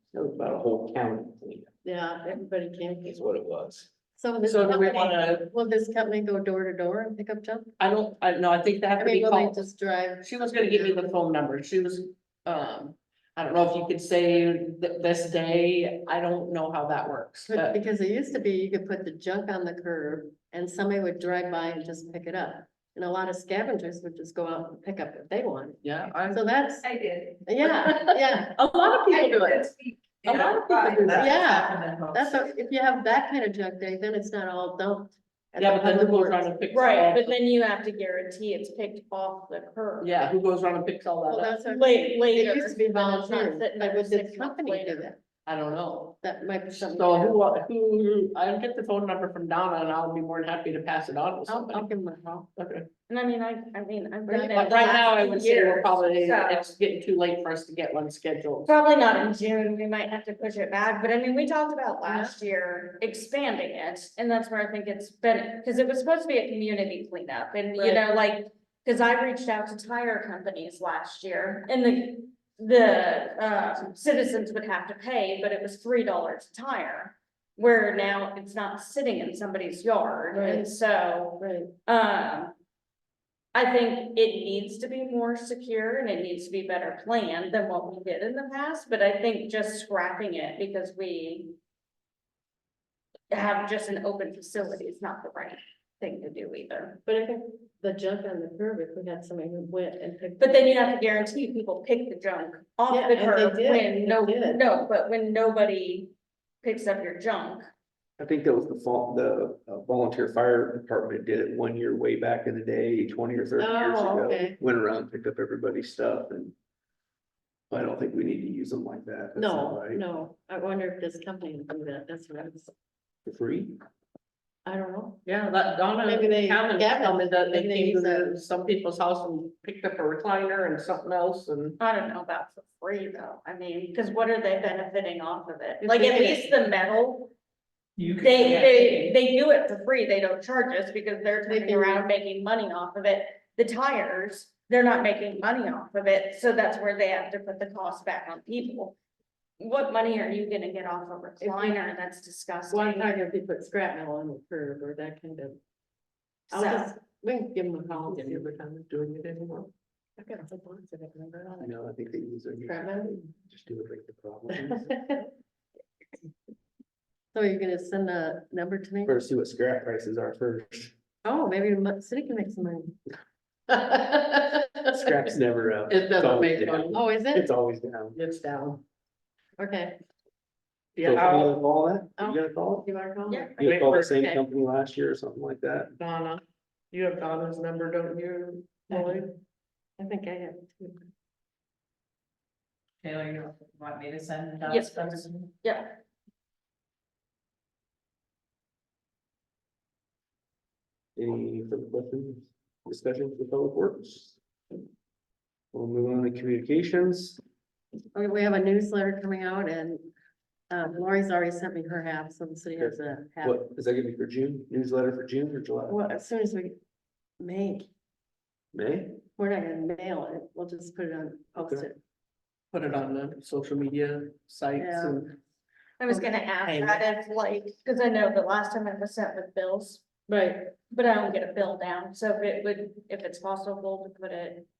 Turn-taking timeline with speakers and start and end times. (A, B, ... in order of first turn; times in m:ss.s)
0:00.1-0:01.7 A
0:01.8-0:03.2 B
0:03.0-0:03.9 A
0:04.2-0:07.7 B
0:04.4-0:05.5 C
0:07.8-0:09.6 C
0:09.0-0:11.0 B
0:10.2-0:17.8 C
0:17.5-0:26.9 B
0:25.8-0:26.5 C
0:26.8-0:27.5 D
0:27.4-0:29.7 B
0:27.6-0:29.6 C
0:29.0-0:32.4 D
0:30.2-0:31.6 C
0:31.1-0:36.5 B
0:35.6-0:37.3 C
0:36.7-0:40.1 E
0:40.0-0:41.6 C
0:41.3-0:45.2 B
0:41.6-0:45.1 E
0:45.5-0:46.2 C
0:46.2-0:47.4 B
0:46.8-0:51.9 C
0:51.5-0:52.5 B
0:52.6-0:52.9 C
0:53.1-0:56.7 E
0:54.3-0:54.8 B
0:54.5-0:58.7 C
0:58.7-1:22.5 E
1:02.1-1:02.4 B
1:20.3-1:20.8 B
1:21.4-1:21.7 B
1:23.5-1:31.6 E
1:33.3-1:37.0 E
1:37.1-1:40.6 B
1:40.4-1:46.1 E
1:42.9-1:44.7 B
1:46.6-1:47.7 E
1:48.2-1:56.6 A
1:53.6-1:54.6 B
1:57.7-2:00.0 A
1:59.4-2:02.7 B
2:03.3-2:03.8 A
2:04.6-2:05.3 B
2:05.3-2:11.8 C
2:06.0-2:08.3 B
2:11.8-2:17.3 E
2:15.8-2:16.5 B
2:18.0-2:19.1 D
2:18.2-2:29.0 E
2:18.4-2:18.7 C
2:21.5-2:22.1 B
2:29.6-2:33.2 E
2:31.4-2:31.8 B
2:32.7-2:35.6 B
2:36.5-2:38.5 B
2:36.5-2:36.9 E
2:38.1-2:39.7 C
2:40.2-2:41.7 B
2:41.6-2:45.0 A
2:42.6-2:43.2 B
2:44.7-2:45.2 B
2:47.3-2:49.2 B
2:49.0-2:50.9 A
2:51.2-2:53.0 B
2:53.7-2:54.7 B
2:54.9-2:58.2 A
2:55.9-2:56.9 C
2:56.7-2:57.5 B
2:58.2-2:58.8 C
2:59.6-3:00.0 B
3:01.0-3:01.6 C
3:01.0-3:02.9 A
3:02.2-3:04.4 B
3:03.3-3:03.7 E
3:03.6-3:06.0 A
3:03.6-3:04.2 C
3:06.0-3:09.2 C
3:08.9-3:09.3 B
3:10.0-3:11.1 B
3:13.0-3:15.5 D
3:14.7-3:16.0 E
3:21.2-3:24.4 A
3:25.7-3:27.4 A
3:28.1-3:30.1 B
3:30.7-3:33.6 B
3:32.8-3:36.0 A
3:35.9-3:36.8 B
3:37.4-3:37.9 B
3:38.7-3:39.2 A
3:39.4-3:42.0 B
3:41.6-3:41.9 A
3:42.7-3:45.4 C
3:44.8-3:45.2 B
3:46.0-3:50.0 E
3:46.1-3:47.0 C
3:50.3-3:50.8 B
3:50.9-3:54.7 E